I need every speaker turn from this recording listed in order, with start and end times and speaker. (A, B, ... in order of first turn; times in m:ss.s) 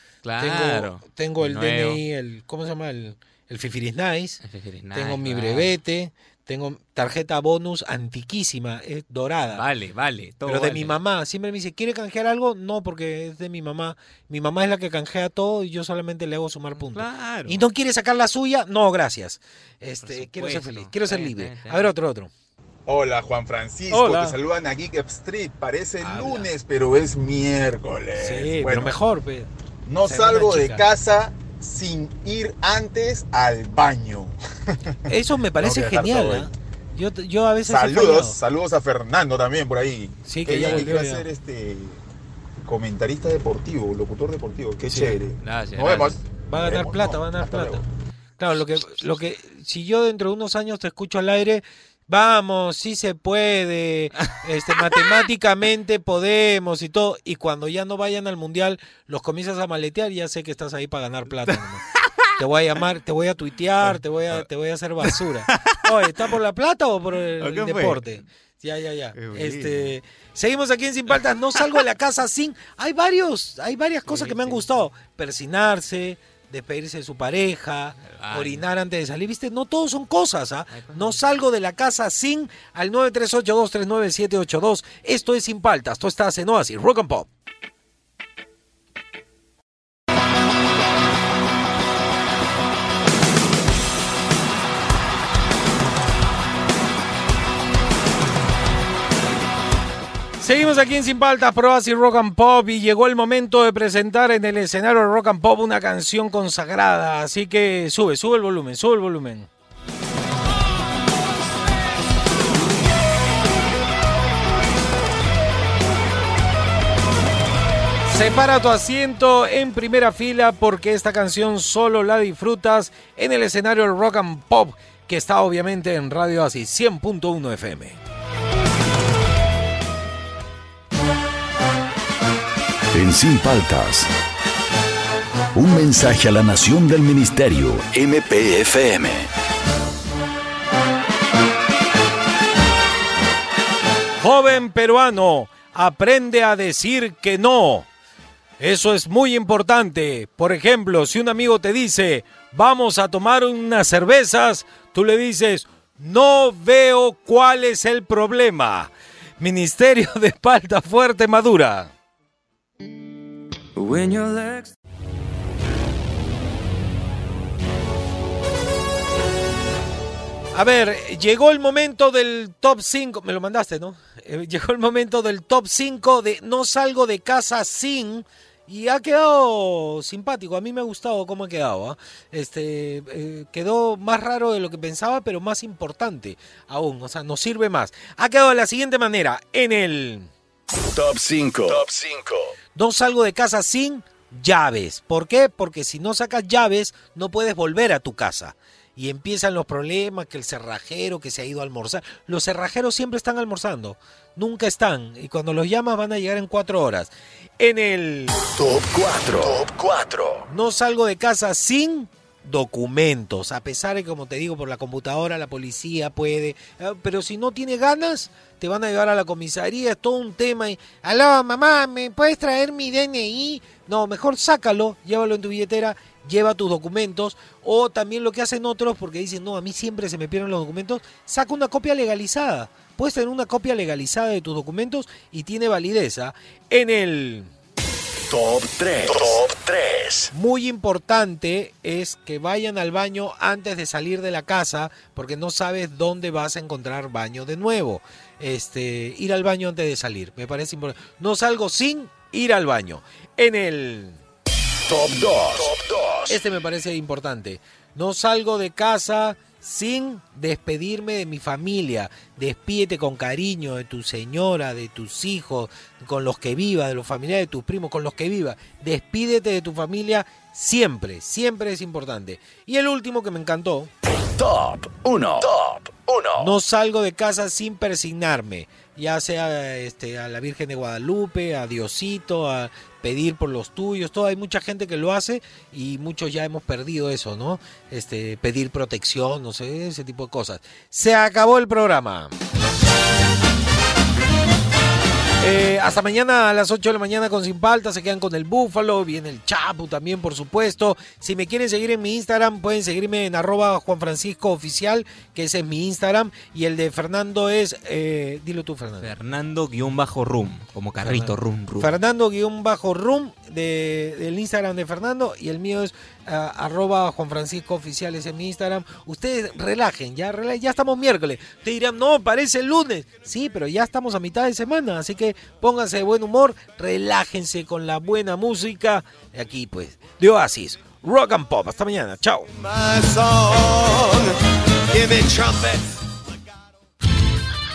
0:00.2-0:02.0 A
0:00.4-0:04.4 B
0:04.4-0:05.7 A
0:04.9-0:09.6 B
0:09.5-0:10.9 A
0:10.4-0:22.3 B
0:16.7-0:17.6 A
0:20.0-0:21.9 A
0:22.9-0:29.0 C
0:23.9-0:24.4 B
0:26.0-0:26.5 B
0:28.2-0:29.5 B
0:29.9-0:34.3 C
0:30.0-0:30.9 B
0:35.1-0:38.4 B
0:35.6-0:36.5 C
0:37.6-0:42.0 C
0:40.2-0:41.3 B
0:42.6-0:47.8 C
0:44.8-0:45.2 B
0:45.4-0:46.2 A
0:46.5-0:47.8 B
0:48.4-1:01.8 B
1:02.4-1:27.3 B
1:03.9-1:04.4 A
1:07.4-1:08.2 A
1:09.2-1:10.0 A
1:14.1-1:14.7 A
1:18.0-1:18.6 A
1:20.7-1:21.2 A
1:40.4-1:49.5 B
1:58.1-2:08.0 B
2:12.9-2:14.1 D
2:15.5-2:19.3 D
2:24.2-2:27.9 B
2:28.6-2:41.9 B
2:43.8-2:44.7 E
2:50.5-3:10.3 B
3:10.9-3:12.5 D
3:12.7-3:28.4 B
3:28.5-3:30.4 D
3:30.5-3:57.5 B
3:58.3-4:00.3 D
4:00.3-4:14.2 B
4:14.9-4:16.4 D
4:16.3-4:33.9 B
4:34.4-4:36.5 D
4:36.4-4:52.3 B
4:55.4-5:09.1 B
5:09.0-5:11.9 A
5:11.0-5:32.5 B
5:32.6-5:34.3 E
5:34.9-5:35.9 E